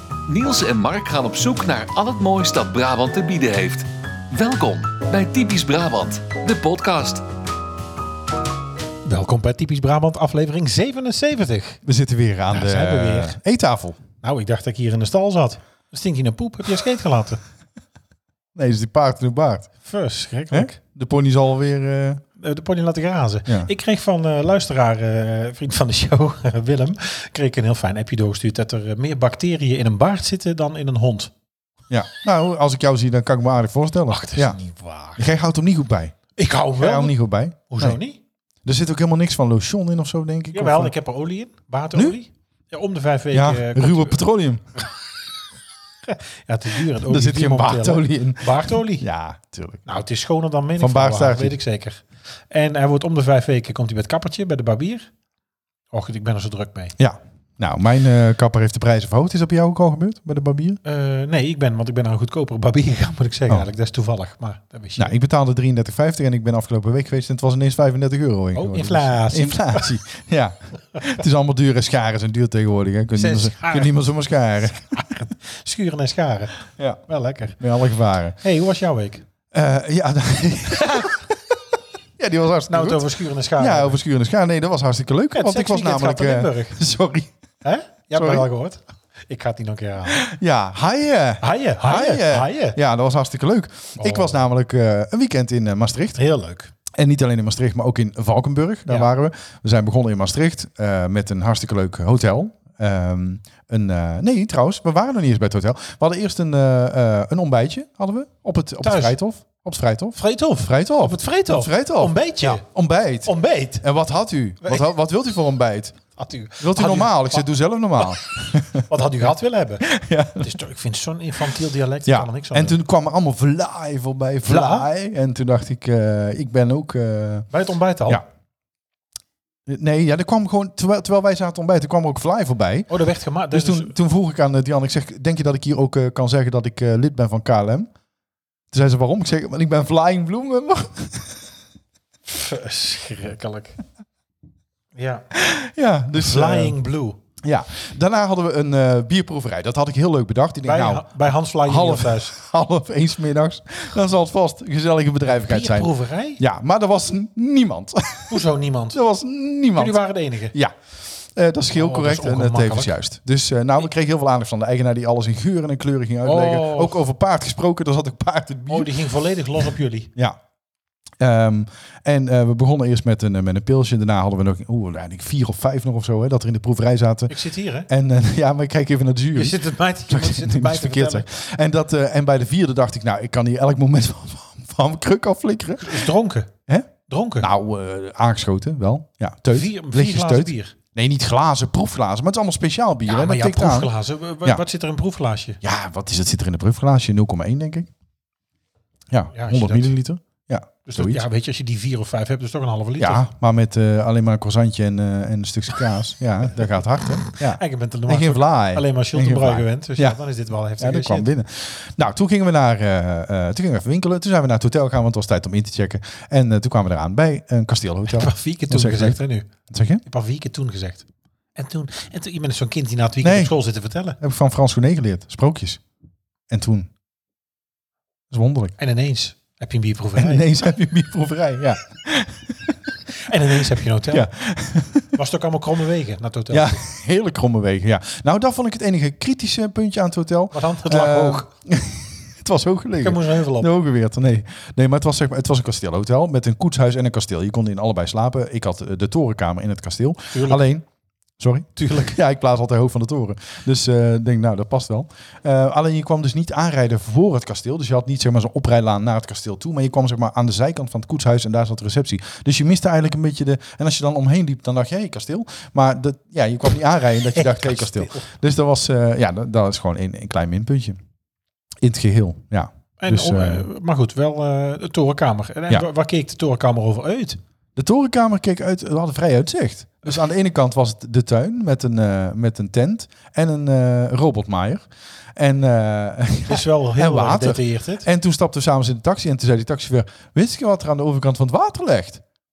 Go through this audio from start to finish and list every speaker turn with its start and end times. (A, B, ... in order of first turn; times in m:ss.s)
0:00.3-0:07.2 A
0:09.0-0:11.8 B
0:11.8-0:14.0 C
0:12.5-0:13.4 B
0:14.2-0:17.4 B
0:18.5-0:19.7 C
0:19.8-0:20.8 B
0:20.5-0:22.2 C
0:22.4-0:31.3 B
0:31.9-0:34.6 C
0:34.1-0:35.2 B
0:35.2-0:36.2 C
0:36.4-0:37.2 B
0:36.8-0:38.0 C
0:37.7-0:38.2 B
0:38.6-0:40.9 C
0:40.5-0:44.2 B
0:43.3-0:44.7 C
0:46.1-0:49.0 B
0:46.9-0:49.8 C
0:49.8-0:55.1 B
0:50.8-0:51.6 C
0:55.9-0:57.0 B
0:57.0-1:00.8 C
1:00.8-1:05.1 B
1:05.0-1:15.0 C
1:08.5-1:09.9 B
1:13.1-1:13.9 B
1:14.9-1:17.6 B
1:17.6-1:18.4 C
1:18.4-1:19.2 B
1:19.5-1:27.3 C
1:20.8-1:21.2 B
1:22.7-1:24.0 B
1:25.3-1:26.8 B
1:27.6-1:30.2 B
1:28.1-1:28.4 C
1:30.1-1:36.2 C
1:31.4-1:32.8 B
1:34.0-1:34.4 B
1:36.2-1:36.7 B
1:36.9-1:56.0 C
1:48.8-1:49.2 B
1:50.2-1:52.6 B
1:53.2-1:53.8 B
1:54.6-1:54.9 B
1:56.2-1:57.5 B
1:56.6-1:58.9 C
1:58.9-2:02.8 B
1:59.8-2:00.5 C
2:02.0-2:07.5 C
2:04.5-2:04.8 B
2:07.5-2:08.2 B
2:09.7-2:12.9 C
2:12.9-2:13.9 B
2:13.5-2:17.9 C
2:18.7-2:21.4 C
2:22.3-2:23.8 B
2:24.9-2:25.3 B
2:25.3-2:26.7 C
2:26.1-2:27.2 B
2:27.4-2:40.0 C
2:30.6-2:32.4 B
2:35.3-2:36.4 B
2:38.3-2:39.0 B
2:39.7-2:40.6 B
2:40.5-2:48.9 C
2:41.7-2:42.9 B
2:46.2-2:47.0 B
2:48.7-2:50.1 B
2:50.1-2:50.4 C
2:51.2-2:57.3 C
2:57.3-2:57.9 B
2:57.9-3:06.1 C
2:59.3-3:01.3 B
3:05.8-3:06.5 B
3:07.1-3:07.5 B
3:07.4-3:13.9 C
3:09.5-3:10.7 B
3:13.0-3:15.6 B
3:15.6-3:17.9 C
3:19.1-3:21.2 C
3:19.3-3:20.0 B
3:20.8-3:23.3 B
3:23.0-3:30.2 C
3:27.4-3:31.3 B
3:30.8-3:39.2 C
3:38.1-3:39.5 B
3:39.7-3:40.0 C
3:40.0-3:44.2 B
3:43.2-3:43.5 C
3:44.2-3:45.8 C
3:46.5-3:46.9 C
3:48.3-3:48.8 C
3:48.8-3:50.5 B
3:50.2-3:52.9 C
3:53.2-3:54.3 B
3:54.1-3:55.1 C
3:55.1-3:56.8 B
3:56.5-4:10.8 C
4:00.5-4:01.5 B
4:03.0-4:03.7 B
4:10.3-4:10.6 B
4:11.4-4:31.0 C
4:11.8-4:12.2 B
4:27.3-4:28.3 B
4:31.8-4:33.7 C
4:33.0-4:37.4 B
4:37.8-4:52.2 C
4:46.5-4:48.1 B